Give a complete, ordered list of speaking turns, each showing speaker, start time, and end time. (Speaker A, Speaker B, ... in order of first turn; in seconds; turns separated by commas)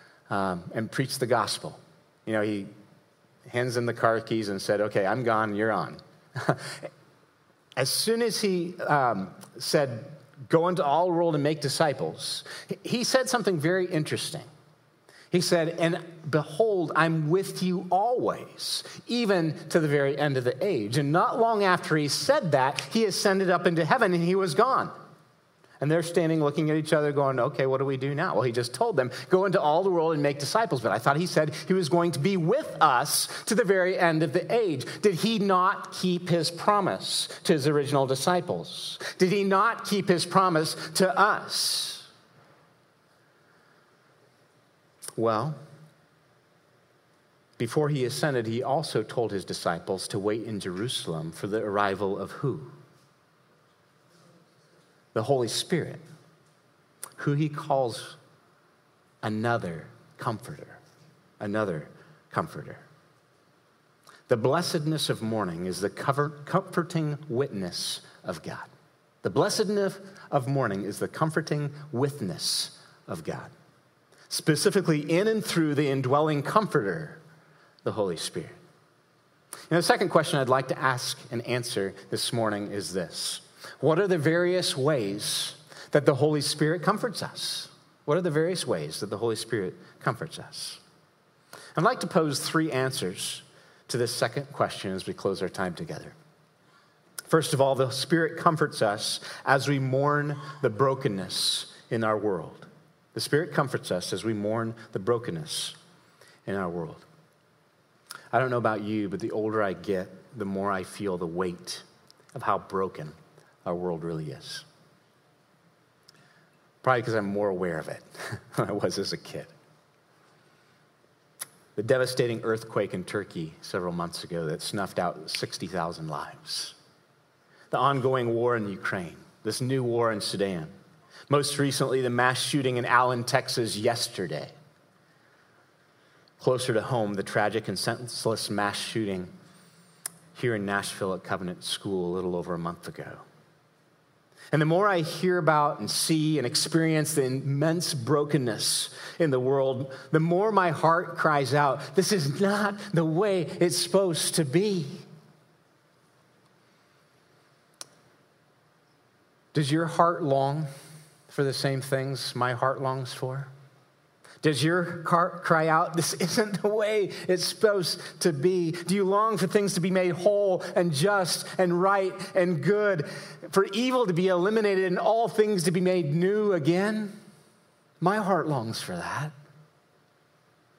Speaker A: 0.3-2.7, Speaker A: 3.5-6.9, Speaker A: 7.8-14.5, Speaker A: 15.3-24.9, Speaker A: 25.8-42.1, Speaker A: 45.2-45.6, Speaker A: 47.6-52.7, Speaker A: 55.1-56.0, Speaker A: 57.2-58.2, Speaker A: 59.2-60.8, Speaker A: 61.4-62.8, Speaker A: 64.3-68.7, Speaker A: 69.2-73.5, Speaker A: 74.3-77.2, Speaker A: 77.8-78.6, Speaker A: 79.7-90.8, Speaker A: 91.8-96.2, Speaker A: 97.3-105.8, Speaker A: 106.5-107.0, Speaker A: 108.3-114.7, Speaker A: 116.8-119.5, Speaker A: 121.8-126.8, Speaker A: 127.7-130.7, Speaker A: 131.3-134.5, Speaker A: 136.4-139.3, Speaker A: 140.3-143.2, Speaker A: 144.5-155.1, Speaker A: 159.5-160.7, Speaker A: 161.3-163.5, Speaker A: 164.4-177.2, Speaker A: 178.0-179.3